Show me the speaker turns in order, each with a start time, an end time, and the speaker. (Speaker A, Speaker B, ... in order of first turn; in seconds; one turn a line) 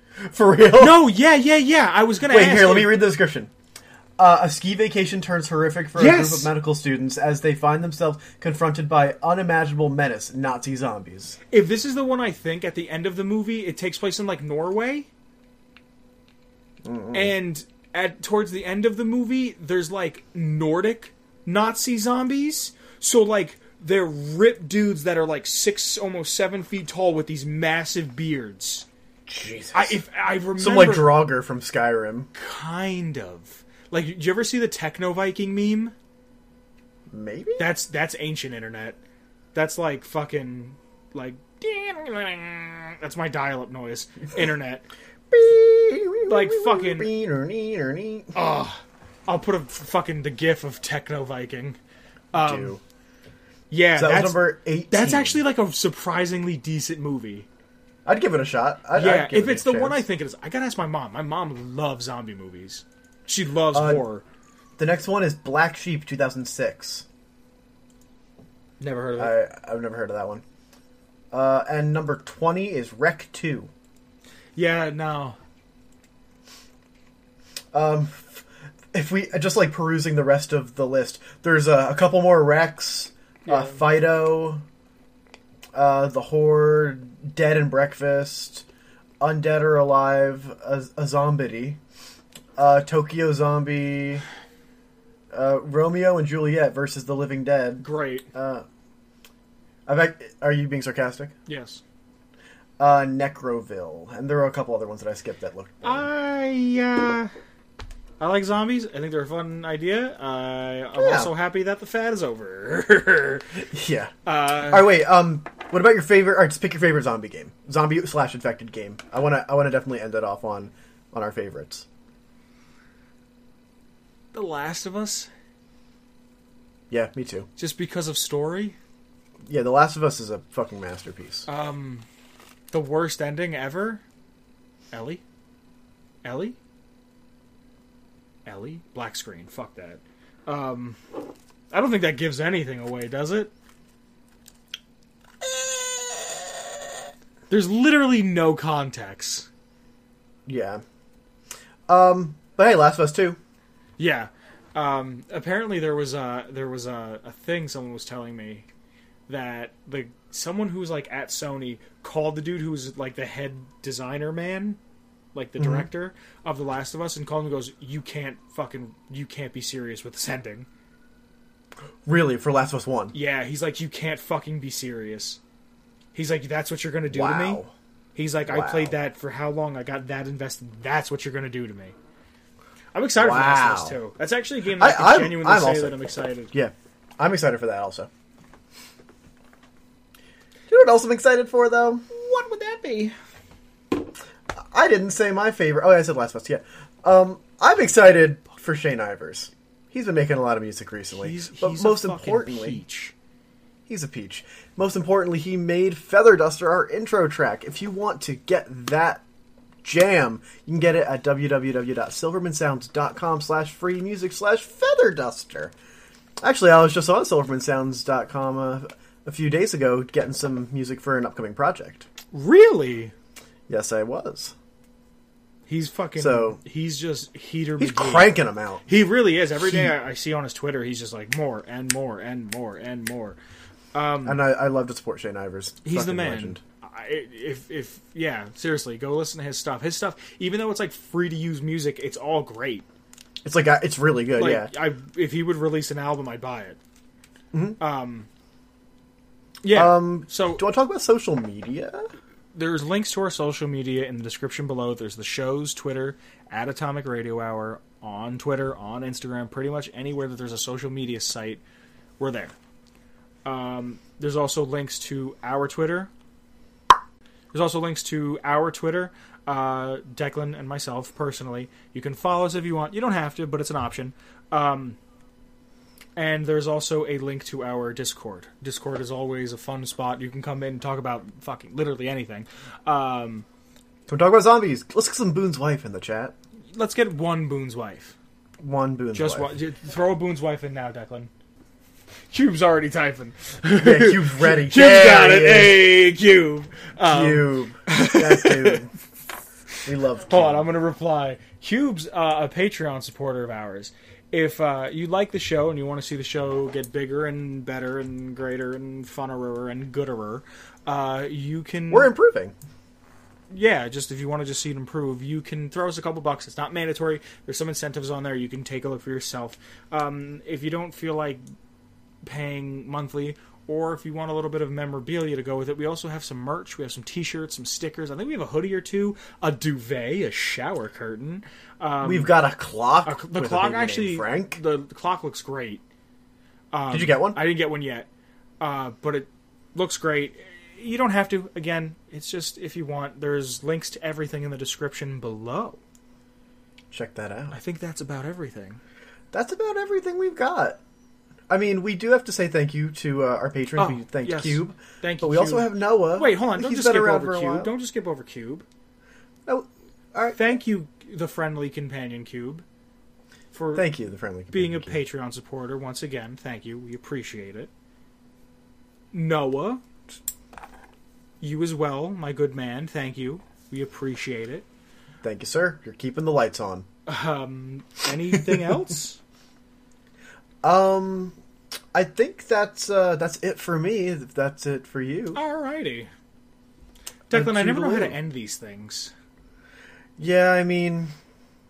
Speaker A: 0.2-1.1
Speaker B: 0.8-3.0
Speaker A: 2.3-3.5
Speaker A: 4.2-11.4
Speaker B: 6.0-6.5
Speaker B: 11.5-15.1
Speaker A: 16.8-17.3
Speaker B: 17.1-28.9
Speaker A: 29.3-30.0
Speaker B: 29.7-31.2
Speaker A: 30.6-32.3
Speaker B: 32.4-35.9
Speaker A: 37.1-37.7
Speaker B: 37.6-39.0
Speaker B: 39.5-44.9
Speaker A: 45.3-48.3
Speaker B: 46.3-47.1
Speaker B: 48.4-51.8
Speaker B: 52.3-52.8
Speaker A: 52.3-52.8
Speaker B: 53.7-57.5
Speaker A: 54.0-55.4
Speaker A: 58.0-60.1
Speaker B: 59.0-64.2
Speaker A: 63.7-64.1
Speaker A: 64.8-67.1
Speaker B: 68.8-69.4
Speaker A: 69.2-70.4
Speaker A: 71.3-73.7
Speaker B: 74.6-75.4
Speaker A: 77.7-84.6
Speaker B: 83.5-83.8
Speaker A: 85.7-88.7
Speaker A: 89.2-91.8
Speaker A: 92.6-94.2
Speaker A: 95.3-98.7
Speaker B: 97.8-98.3
Speaker A: 99.9-101.3
Speaker B: 101.5-101.8
Speaker A: 102.8-106.1
Speaker B: 105.8-107.3
Speaker B: 108.2-113.6
Speaker A: 111.0-111.3
Speaker A: 113.7-121.9
Speaker B: 114.3-114.9
Speaker B: 124.3-125.3
Speaker A: 126.9-127.5
Speaker B: 127.6-128.8
Speaker A: 129.5-131.5
Speaker B: 131.5-132.1
Speaker B: 132.7-134.0
Speaker B: 134.9-135.2
Speaker B: 136.2-136.6
Speaker B: 138.5-141.0
Speaker B: 141.7-143.5
Speaker B: 147.5-149.5
Speaker A: 150.5-150.8
Speaker A: 151.9-153.4
Speaker B: 154.0-158.7
Speaker B: 159.3-164.8
Speaker B: 165.3-170.7
Speaker A: 165.6-165.9
Speaker A: 172.1-173.2
Speaker B: 173.1-175.4
Speaker B: 176.1-177.6
Speaker A: 177.1-177.7
Speaker B: 178.2-181.9
Speaker A: 178.5-179.0
Speaker B: 182.9-186.5
Speaker A: 183.2-184.0
Speaker A: 184.8-186.0
Speaker A: 186.5-188.1
Speaker A: 190.7-192.0
Speaker B: 192.1-193.2
Speaker A: 194.7-202.8
Speaker B: 201.1-203.1
Speaker A: 203.9-209.2
Speaker A: 209.8-215.7
Speaker A: 216.4-222.1
Speaker B: 222.3-223.1
Speaker A: 223.7-224.6
Speaker B: 225.7-228.3
Speaker A: 226.2-226.6
Speaker A: 227.8-228.9
Speaker B: 228.9-233.4
Speaker A: 229.6-229.9
Speaker B: 233.9-234.4
Speaker A: 234.2-236.6
Speaker B: 235.8-242.9
Speaker A: 243.4-244.7
Speaker B: 244.4-246.8
Speaker A: 247.5-247.8
Speaker B: 247.8-248.3
Speaker B: 249.6-250.6
Speaker A: 249.7-252.1
Speaker B: 252.5-261.6
Speaker B: 262.2-262.6
Speaker B: 263.4-266.1
Speaker B: 267.5-275.0
Speaker B: 276.2-283.5
Speaker A: 284.1-286.4
Speaker B: 286.7-288.1
Speaker A: 288.6-289.5
Speaker B: 289.1-291.3
Speaker B: 292.3-298.9
Speaker A: 293.8-295.9
Speaker A: 297.1-298.9
Speaker A: 299.9-300.7
Speaker B: 300.2-312.1
Speaker A: 311.9-312.6
Speaker B: 313.5-321.4
Speaker B: 322.2-332.3
Speaker A: 332.0-334.6
Speaker B: 333.1-335.8
Speaker B: 336.7-338.1
Speaker A: 336.9-337.4
Speaker B: 338.6-345.8
Speaker A: 346.9-347.6
Speaker B: 347.5-348.8
Speaker A: 349.3-350.8
Speaker A: 351.5-357.7
Speaker B: 353.8-358.6
Speaker A: 359.5-360.4
Speaker B: 360.4-362.6
Speaker B: 363.5-363.9
Speaker A: 363.7-365.0
Speaker B: 364.5-367.7
Speaker B: 369.1-369.8
Speaker B: 371.4-374.7
Speaker A: 375.2-376.9
Speaker B: 377.1-379.2
Speaker A: 378.3-378.6
Speaker A: 380.6-381.4
Speaker A: 381.9-385.4
Speaker B: 385.3-386.1
Speaker B: 387.3-389.1
Speaker A: 387.3-388.2
Speaker A: 390.2-391.1